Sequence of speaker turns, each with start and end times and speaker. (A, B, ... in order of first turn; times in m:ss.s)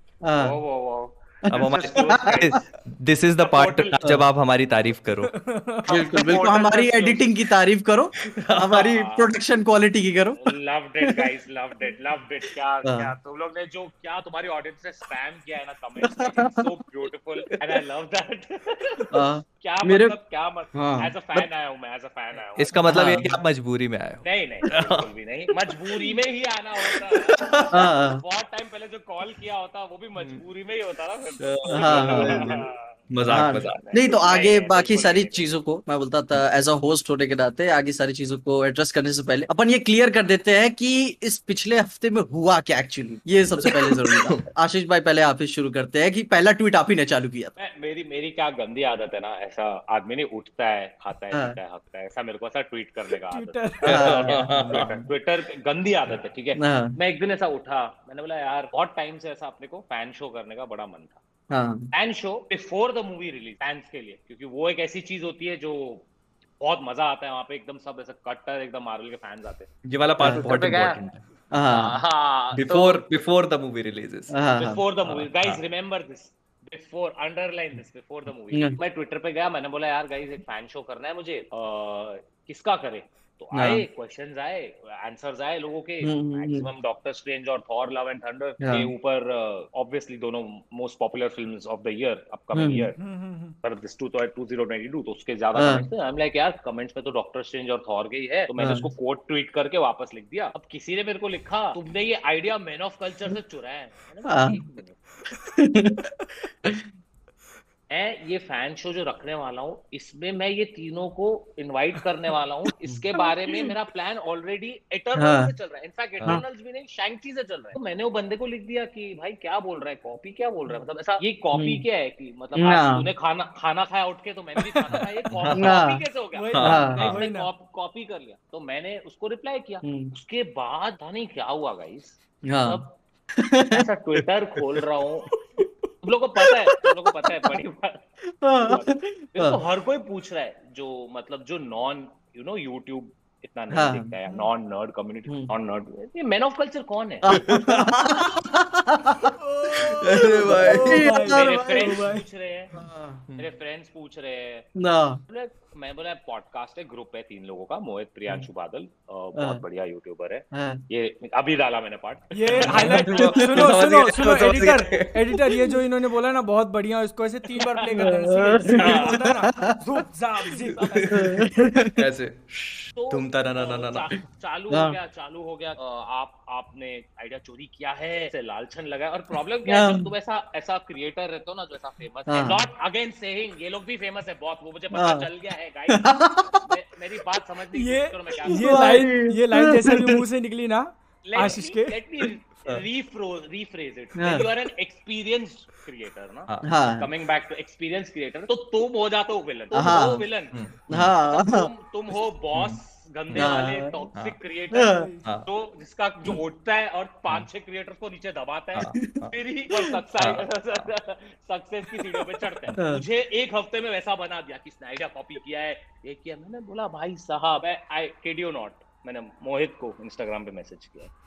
0:00.2-0:00.6 A
0:00.4-0:02.6 B
0:01.5-0:02.5 A
0:01.5-0:05.4 C
0:03.4-0:04.0 B
0:05.4-0:06.0 D
0:05.9-0:07.3 B
0:05.9-0:10.4 A
0:08.2-0:08.9 C
0:08.7-0:09.3 B
0:10.4-0:22.8 B
0:12.8-0:13.1 A
0:16.0-0:16.7 A
0:19.1-0:20.2 A
0:20.7-0:21.1 A
0:22.5-0:26.2 C
0:22.9-0:23.4 A
0:24.2-0:35.5 B
0:26.8-0:27.9 C
0:27.7-0:28.2 A
0:31.4-0:33.8 C
0:31.7-0:32.6 A
0:33.3-0:47.5 A
0:43.6-0:44.4 C
0:47.6-1:01.2 B
0:51.3-0:51.6 A
0:53.3-0:53.8 D
0:53.8-0:54.9 C
0:53.9-0:55.1 A
0:56.6-0:57.0 A
1:01.5-1:01.9 A
1:01.9-1:06.1 B
1:06.6-1:09.7 B
1:09.8-1:11.2 C
1:10.4-1:11.0 B
1:11.5-1:12.0 A
1:11.7-1:13.1 B
1:12.6-1:14.3 C
1:14.3-1:14.8 A
1:14.6-1:33.0 B
1:15.0-1:15.6 C
1:18.5-1:18.8 A
1:23.5-1:23.8 A
1:26.0-1:26.7 A
1:28.6-1:28.9 A
1:32.5-1:32.9 A
1:33.0-1:33.6 D
1:33.6-1:45.0 B
1:35.6-1:35.8 A
1:38.6-1:38.9 A
1:44.3-1:44.6 A
1:45.5-1:46.1 A
1:47.9-2:12.9 B
1:55.2-1:55.5 A
2:01.5-2:01.8 A
2:02.6-2:03.1 A
2:04.9-2:05.8 C
2:05.5-2:06.0 A
2:06.3-2:07.5 D
2:06.5-2:07.2 C
2:06.6-2:07.0 A
2:09.8-2:10.1 A
2:12.4-2:12.8 A
2:13.3-2:13.8 A
2:13.7-2:15.3 B
2:16.0-2:18.0 B
2:18.4-2:19.6 A
2:18.6-2:27.3 B
2:23.7-2:24.1 A
2:25.3-2:25.5 A
2:27.3-2:32.0 A
2:27.3-2:28.1 C
2:29.4-2:32.3 D
2:29.8-2:31.1 C
2:31.2-2:32.7 B
2:32.7-2:33.2 A
2:33.4-2:34.7 B
2:34.8-2:35.2 A
2:35.3-2:43.4 B
2:39.4-2:39.6 A
2:40.5-2:40.8 A
2:42.3-2:51.7 D
2:42.5-2:45.6 C
2:47.5-2:48.0 B
2:48.0-2:50.0 A
2:48.8-2:49.2 C
2:48.8-2:49.2 B
2:50.6-2:51.4 C
2:51.1-2:52.0 A
2:52.0-2:54.1 C
2:53.0-3:08.9 B
2:54.7-2:55.0 A
2:59.7-3:00.1 A
3:02.3-3:02.6 A
3:04.9-3:05.3 A
3:05.9-3:06.6 A
3:07.7-3:12.0 D
3:08.5-3:10.2 A
3:11.2-3:20.6 B
3:14.2-3:14.5 A
3:16.6-3:17.1 A
3:19.7-3:20.2 A
3:20.5-3:21.1 C
3:20.9-3:21.7 A
3:21.1-3:41.1 B
3:22.5-3:23.5 C
3:23.4-3:24.1 A
3:24.7-3:25.1 A
3:24.8-3:25.2 D
3:28.7-3:29.3 C
3:29.0-3:29.2 A
3:30.2-3:30.9 C
3:32.8-3:33.0 A